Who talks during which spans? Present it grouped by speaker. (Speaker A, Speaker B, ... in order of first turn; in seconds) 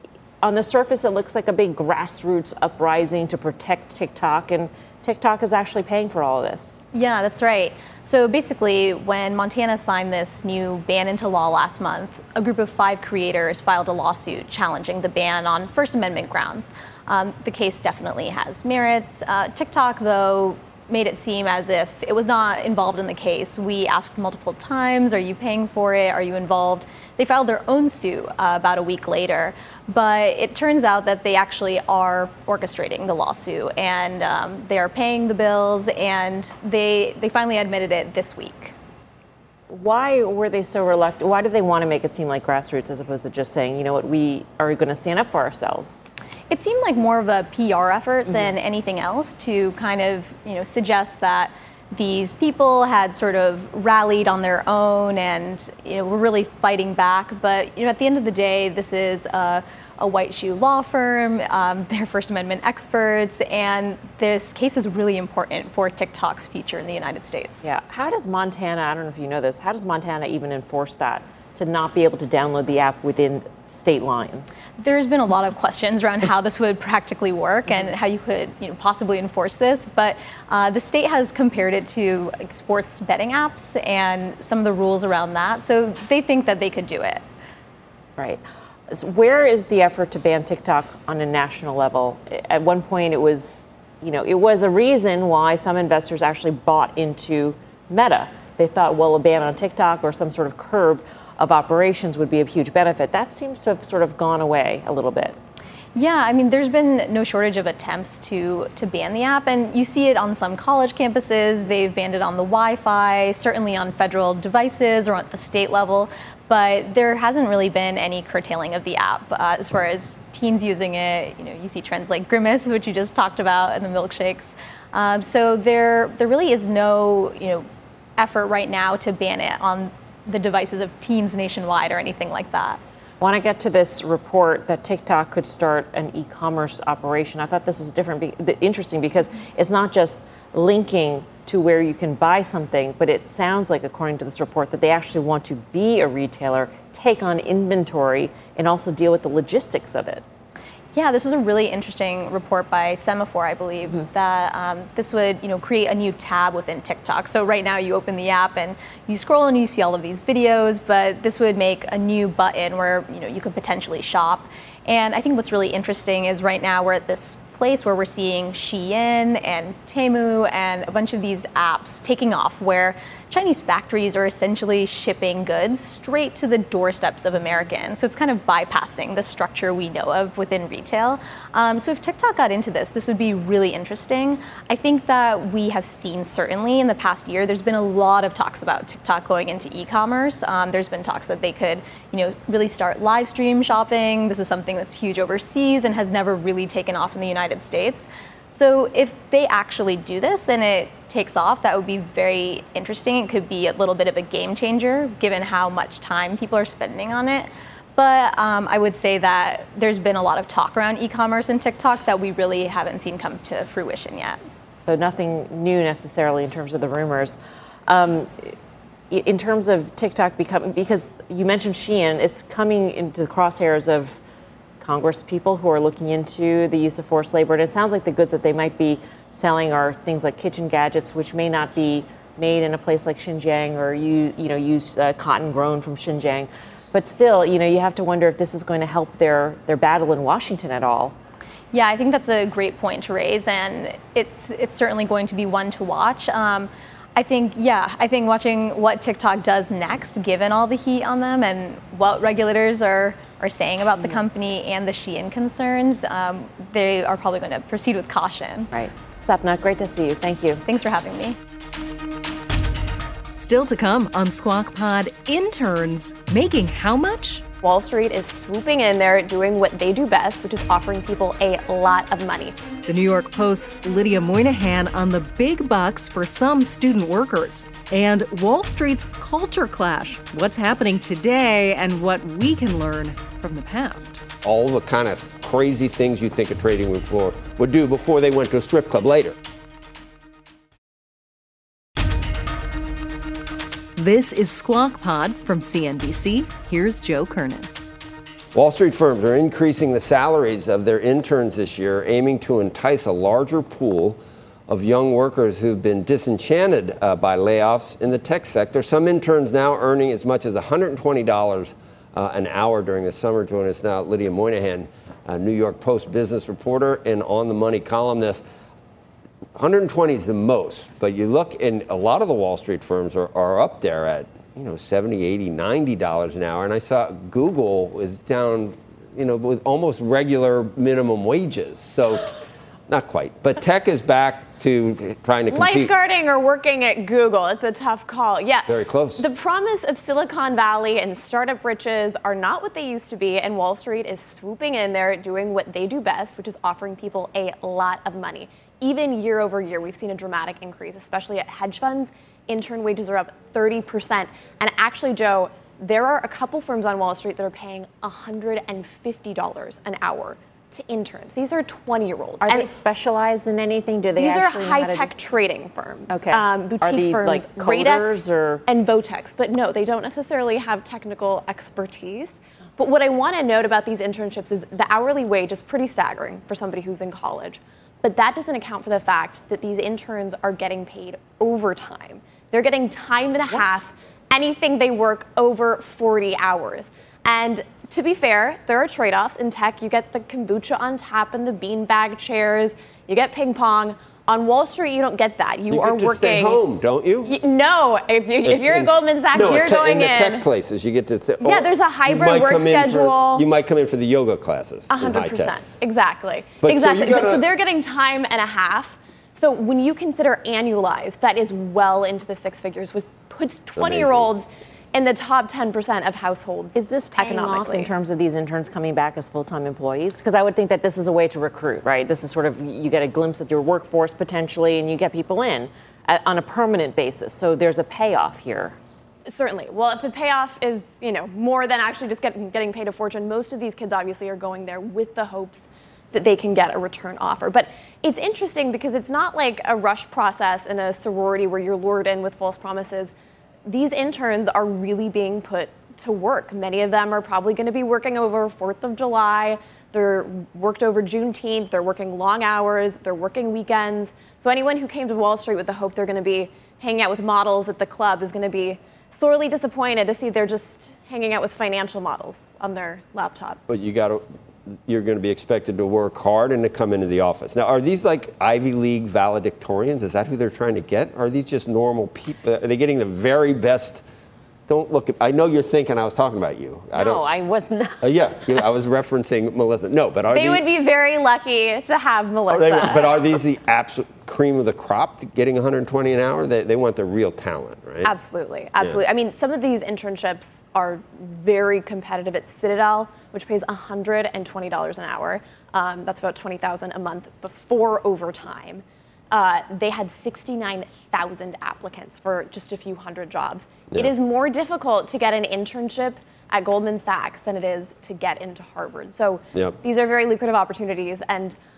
Speaker A: 0.4-6.8, 39.7-46.1, 67.6-74.6, 88.2-105.4, 133.2-150.2, 214.9-218.6, 219.1-224.2, 224.8-241.1, 258.7-260.6, 362.4-365.1, 366.1-368.7, 416.8-428.8, 476.9-478.1
Speaker B: 6.9-38.7, 46.5-67.7, 74.8-87.2, 106.0-127.7, 128.2-132.8, 150.9-214.4, 241.7-258.7, 260.7-261.4
Speaker C: 263.4-267.4, 272.9-284.2, 294.0-297.7
Speaker D: 267.6-272.6, 335.5-362.7, 364.2-396.6, 397.2-400.5, 401.4-403.5, 404.9-417.9, 429.3-443.1, 443.6-463.6, 480.3-483.2, 488.0-511.6
Speaker E: 284.4-289.4, 298.5-318.4, 319.6-335.9, 338.7-339.3, 395.7-397.3, 398.4-405.6, 406.6-407.4, 413.8-414.3, 463.7-464.2, 464.9-474.0, 474.7-477.2, 478.0-480.6, 482.5-488.1